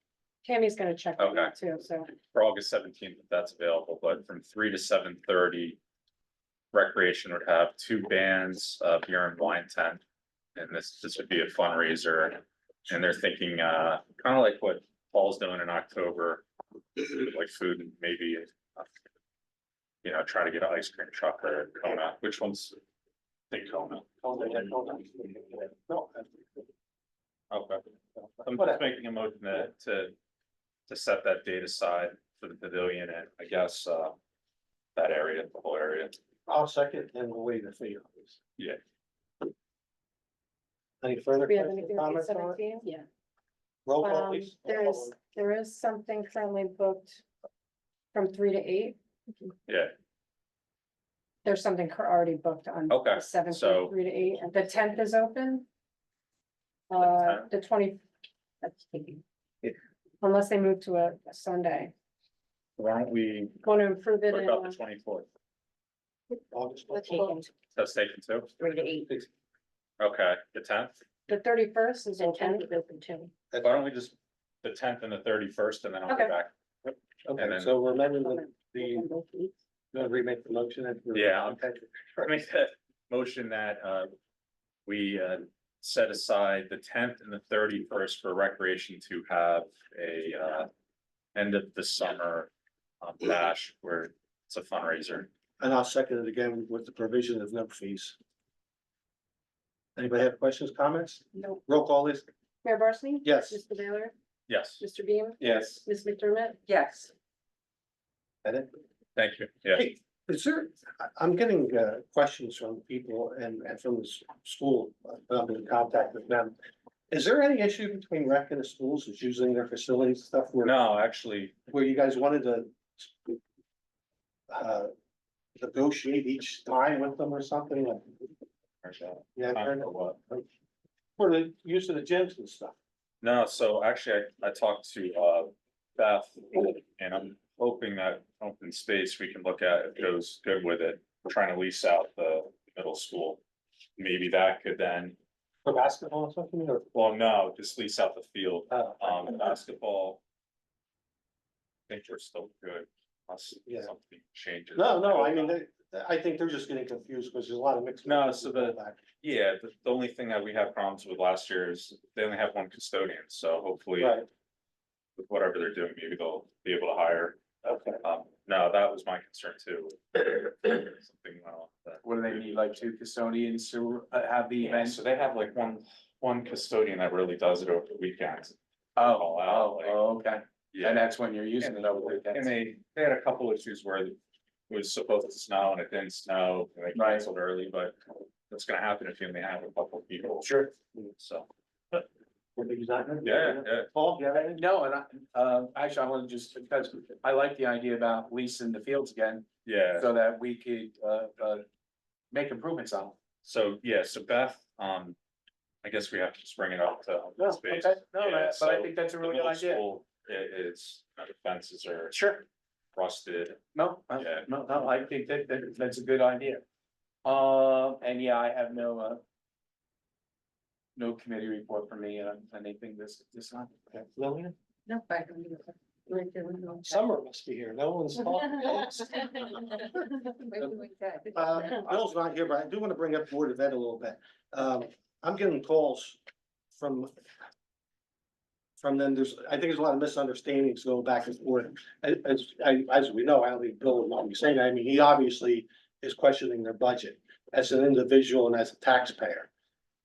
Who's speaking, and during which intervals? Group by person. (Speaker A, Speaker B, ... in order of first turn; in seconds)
Speaker A: 0.4-2.1, 41.5-42.9, 44.0-47.1, 48.1-49.0, 51.4-55.7, 56.9-58.0, 60.2-61.9, 63.6-64.8, 71.3-72.7, 102.6-104.1, 104.8-106.6
Speaker B: 1.2-1.5, 2.2-5.8, 6.7-10.0, 10.6-16.4, 17.0-18.9, 20.0-22.8, 23.5-24.1, 27.5-27.8, 28.4-30.1, 30.9-34.2, 35.0-36.2, 49.7-49.9, 52.9-54.0, 57.0-57.5, 62.8-63.6, 64.3-65.3, 67.8-68.5, 70.0-71.0, 73.6-76.5, 77.4-77.8, 81.1-81.6, 82.2-84.1, 84.9-90.7, 91.3-95.3, 104.5-104.8, 109.2-109.9, 120.6-121.5, 128.8-130.2, 133.2-143.4, 144.0-145.2, 146.9-150.2, 151.9-155.6, 158.1-164.2, 165.2-167.4, 168.0-172.8, 174.6-180.0, 180.7-181.1, 181.6-184.2, 184.7-188.0, 188.5-190.5, 191.2-191.5, 193.2-193.9, 199.7-200.1, 203.4-205.2, 205.8-212.2, 212.9-213.6, 214.1-214.5
Speaker C: 24.2-26.6, 28.5-28.8, 36.5-38.4, 41.0-42.6, 43.9-45.1, 66.5-67.3, 77.2-79.1, 79.9-82.3, 95.6-98.2, 100.0-102.3, 103.2-103.6, 105.4-105.8, 108.4-108.7, 109.7-116.6, 117.1-120.8, 121.7-123.4, 124.5-124.9, 125.6-128.2, 129.4-130.4, 131.2-132.8, 145.7-147.0, 148.7-149.5, 154.8-159.0, 164.0-164.3, 192.6-194.6, 223.9-224.6, 226.8-229.7, 231.3-236.2, 236.7-237.1, 238.8-249.5
Speaker D: 45.4-45.7, 53.5-55.2, 58.6-59.2, 66.9-67.5, 68.6-69.1, 72.2-73.3, 78.2-79.5, 106.7-107.1, 224.9-227.0, 229.5-231.9
Speaker E: 172.0-175.0, 179.0-182.5, 186.9-187.3, 190.4-190.7, 194.6-201.7, 202.3-203.2, 207.4-209.8, 212.1-212.4, 213.7-216.6, 217.2-219.2, 220.9-223.7